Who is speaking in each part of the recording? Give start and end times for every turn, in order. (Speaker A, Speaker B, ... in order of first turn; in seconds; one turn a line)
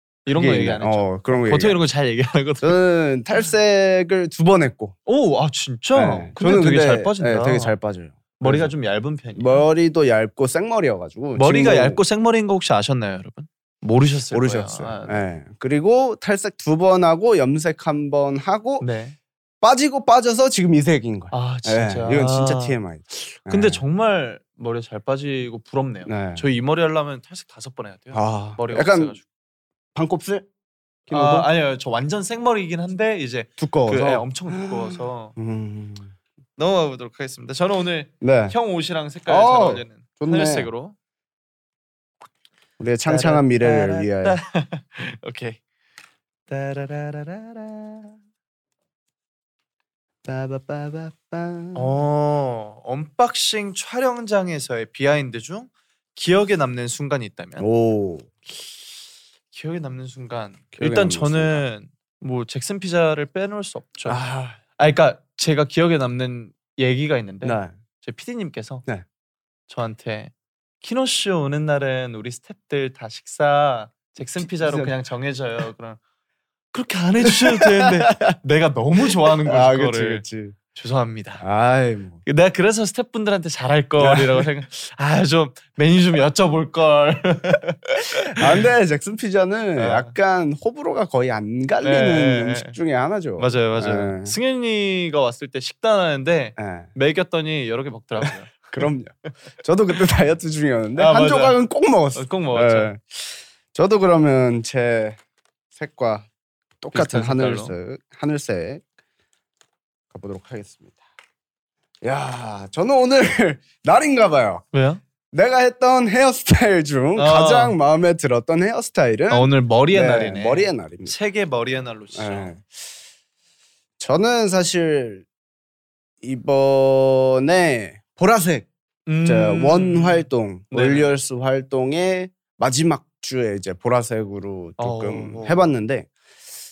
Speaker A: 0.2-2.8
Speaker B: 0.3-1.8
Speaker B: 2.6-5.0
Speaker A: 5.0-7.8
Speaker B: 5.9-8.7
Speaker A: 8.4-9.7
Speaker B: 9.3-12.0
Speaker A: 11.3-15.2
Speaker B: 14.3-18.9
Speaker A: 18.8-19.1
Speaker B: 19.6-23.8
Speaker A: 21.3-29.2
Speaker B: 26.1-26.4
Speaker B: 28.1-29.2
Speaker B: 29.9-30.5
Speaker B: 31.1-31.5
Speaker A: 31.1-35.3
Speaker B: 33.6-36.1
Speaker A: 36.6-40.9
Speaker B: 38.2-38.6
Speaker B: 39.2-40.7
Speaker B: 42.8-44.4
Speaker A: 43.0-45.6
Speaker A: 46.5-48.1
Speaker B: 50.2-52.0
Speaker A: 51.7-57.6
Speaker B: 57.6-58.3
Speaker A: 59.5-64.2
Speaker B: 60.7-61.6
Speaker B: 64.0-64.6
Speaker A: 64.8-68.8
Speaker B: 67.4-67.7
Speaker A: 69.7-76.0
Speaker B: 74.4-74.9
Speaker A: 76.7-81.4
Speaker B: 77.2-78.3
Speaker B: 79.5-80.6
Speaker B: 81.4-82.2
Speaker A: 82.2-88.7
Speaker B: 84.0-84.5
Speaker B: 88.3-94.3
Speaker A: 89.8-90.1
Speaker A: 91.8-92.8
Speaker A: 93.4-98.9
Speaker B: 96.6-96.9
Speaker B: 98.2-105.2
Speaker A: 100.9-101.6
Speaker A: 102.1-102.9
Speaker B: 105.7-106.3
Speaker B: 106.8-108.8
Speaker A: 106.9-107.7
Speaker B: 110.1-111.0
Speaker B: 112.0-114.7
Speaker A: 114.7-115.0
Speaker B: 115.3-121.1
Speaker A: 117.2-117.8
Speaker A: 119.3-122.5
Speaker B: 122.1-122.7
Speaker B: 124.0-125.2
Speaker B: 126.2-128.7
Speaker A: 129.1-131.1
Speaker B: 129.2-136.1
Speaker A: 134.8-135.7